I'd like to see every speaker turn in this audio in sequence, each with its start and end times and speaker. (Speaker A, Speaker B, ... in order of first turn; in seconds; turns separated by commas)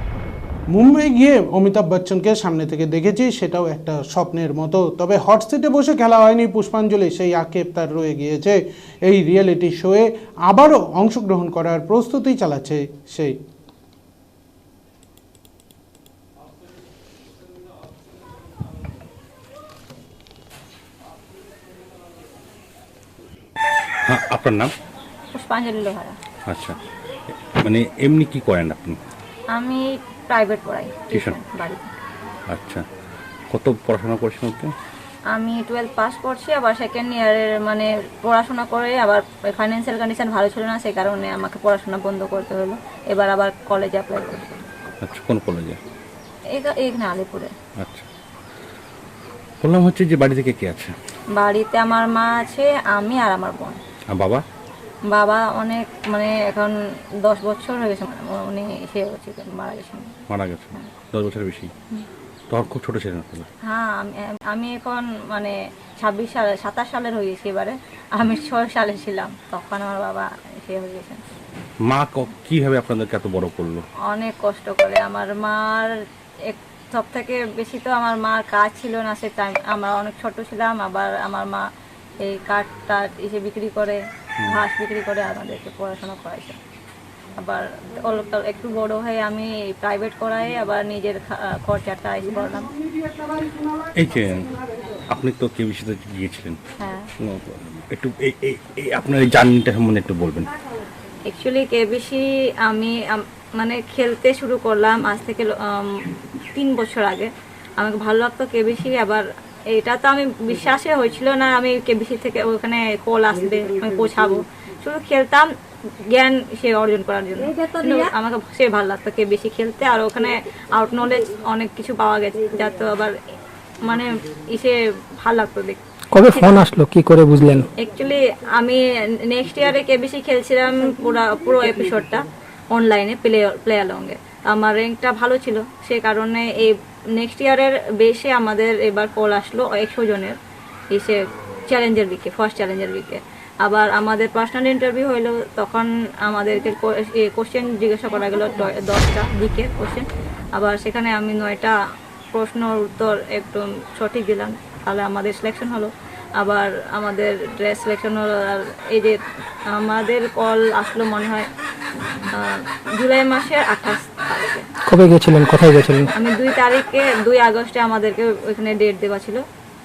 Speaker A: 0.7-13.4, Speaker B: 24.1-24.7, Speaker C: 25.3-26.2, Speaker B: 26.5-26.8, Speaker B: 27.6-29.0, Speaker C: 29.5-31.9, Speaker B: 31.1-31.4, Speaker B: 32.5-32.9, Speaker B: 33.5-34.7, Speaker C: 35.3-44.7, Speaker B: 45.0-45.8, Speaker C: 46.5-47.5, Speaker B: 47.8-48.1, Speaker B: 49.6-51.0, Speaker C: 51.4-53.8, Speaker B: 54.1-54.4, Speaker C: 55.1-56.8, Speaker C: 57.3-60.1, Speaker B: 60.3-61.7, Speaker B: 62.5-63.5, Speaker C: 63.6-71.2, Speaker B: 71.9-73.8, Speaker C: 74.1-75.9, Speaker C: 76.5-81.7, Speaker C: 82.2-86.6, Speaker C: 87.4-92.7, Speaker A: 92.8-95.0, Speaker B: 94.0-94.5, Speaker B: 95.1-96.6, Speaker C: 96.8-97.1, Speaker B: 97.2-100.5, Speaker C: 101.3-106.0, Speaker C: 106.5-115.5, Speaker C: 116.1-123.2, Speaker D: 117.5-118.1, Speaker C: 123.8-125.8, Speaker D: 126.1-127.7, Speaker C: 127.8-140.4, Speaker C: 140.9-151.8, Speaker C: 152.3-159.2, Speaker C: 159.7-161.5, Speaker C: 162.3-164.7, Speaker D: 164.9-166.1, Speaker C: 166.1-169.4